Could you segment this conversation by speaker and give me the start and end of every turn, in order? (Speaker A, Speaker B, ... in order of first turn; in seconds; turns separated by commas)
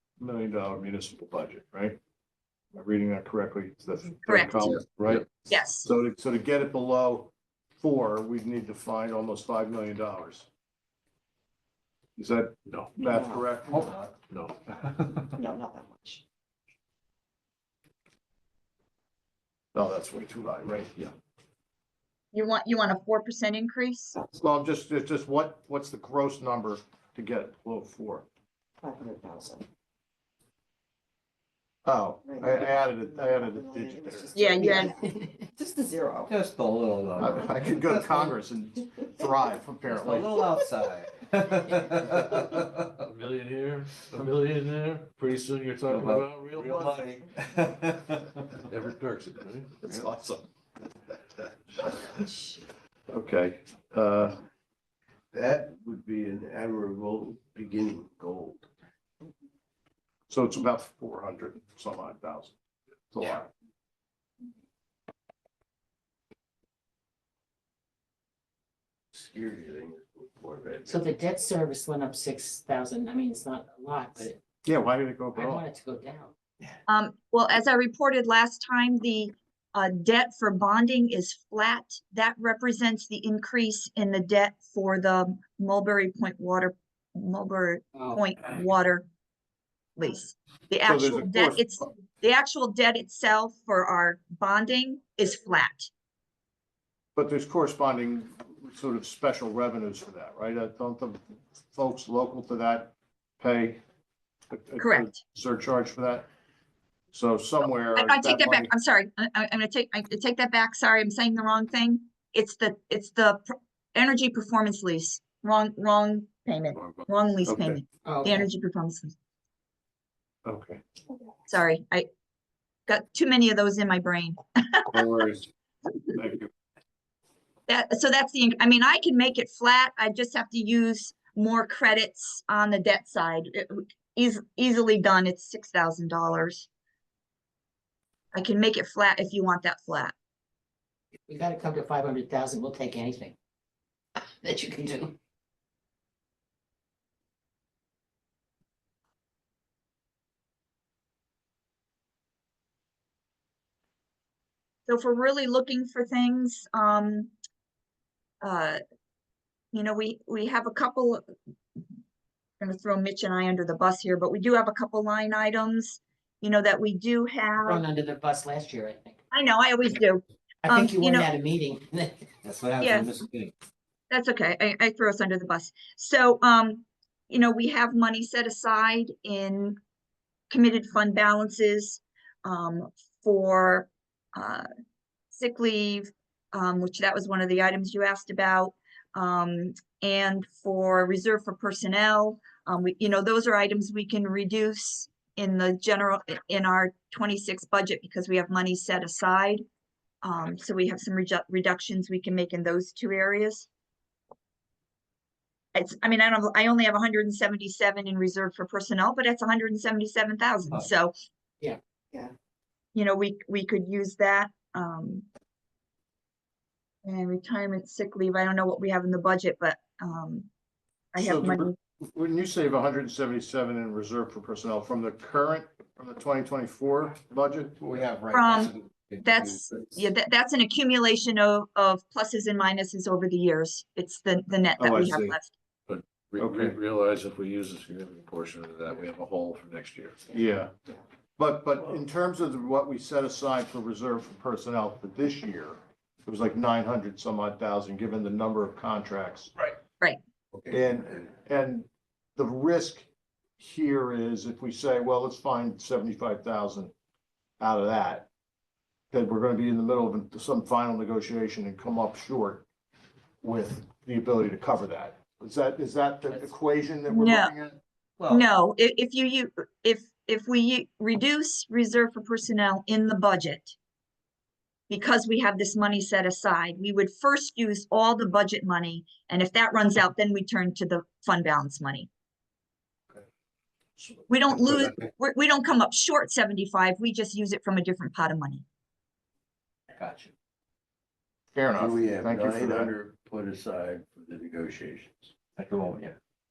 Speaker A: 0.2-2.0, Speaker A: 2.7-5.3, Speaker B: 4.3-4.8, Speaker B: 5.5-5.9, Speaker A: 5.8-10.5, Speaker A: 12.2-13.9, Speaker C: 13.0-13.4, Speaker D: 13.7-14.1, Speaker E: 14.3-15.3, Speaker C: 15.3-16.2, Speaker A: 19.7-21.1, Speaker B: 22.3-24.1, Speaker A: 24.3-28.2, Speaker C: 28.8-29.6, Speaker A: 31.8-34.9, Speaker C: 32.2-36.3, Speaker B: 34.3-34.9, Speaker D: 36.3-38.3, Speaker A: 37.2-40.5, Speaker D: 39.9-42.9, Speaker E: 43.0-47.2, Speaker D: 45.9-48.4, Speaker E: 48.7-49.8, Speaker D: 49.8-50.3, Speaker A: 49.8-50.2, Speaker A: 53.1-54.4, Speaker F: 55.3-58.7, Speaker A: 60.3-62.5, Speaker A: 63.1-63.5, Speaker F: 69.1-71.0, Speaker G: 70.8-74.4, Speaker A: 74.6-75.6, Speaker G: 75.3-76.3, Speaker B: 76.9-89.1, Speaker G: 87.9-88.2, Speaker B: 90.0-95.9, Speaker A: 90.8-91.9, Speaker A: 97.2-103.8, Speaker A: 104.5-106.3, Speaker B: 104.8-105.2, Speaker A: 107.1-108.7, Speaker B: 107.9-119.1, Speaker E: 116.8-117.0, Speaker A: 117.5-117.8, Speaker G: 118.0-118.5, Speaker A: 120.4-120.8, Speaker B: 121.5-122.1, Speaker B: 122.9-125.0, Speaker A: 124.9-125.5, Speaker A: 126.1-126.5, Speaker B: 127.7-136.7, Speaker B: 138.3-140.1, Speaker G: 141.3-143.3, Speaker G: 144.4-145.2, Speaker B: 154.9-157.3, Speaker B: 158.4-158.8, Speaker B: 159.7-161.2, Speaker B: 162.6-167.8, Speaker G: 167.6-169.2, Speaker B: 169.3-171.3, Speaker G: 170.6-172.2, Speaker D: 172.4-173.5, Speaker B: 172.8-173.1, Speaker B: 174.1-179.8, Speaker B: 180.5-184.7, Speaker B: 185.3-199.6, Speaker B: 200.2-203.7, Speaker B: 205.7-211.1, Speaker B: 212.9-215.2, Speaker B: 217.0-220.5, Speaker B: 221.1-221.7, Speaker A: 221.2-227.9, Speaker D: 227.8-229.8, Speaker B: 228.3-235.5, Speaker A: 234.8-235.4, Speaker E: 235.9-240.2, Speaker A: 236.4-236.8, Speaker A: 240.3-240.7, Speaker A: 241.4-249.5, Speaker A: 250.7-253.1, Speaker A: 253.6-256.9, Speaker A: 257.6-258.3, Speaker A: 259.1-262.6, Speaker A: 263.4-267.8, Speaker B: 267.1-267.5, Speaker D: 268.2-268.5, Speaker B: 268.3-273.7, Speaker B: 274.9-282.1, Speaker B: 284.3-288.6, Speaker D: 289.9-290.3, Speaker A: 291.5-292.9, Speaker F: 291.8-295.3, Speaker D: 295.5-296.1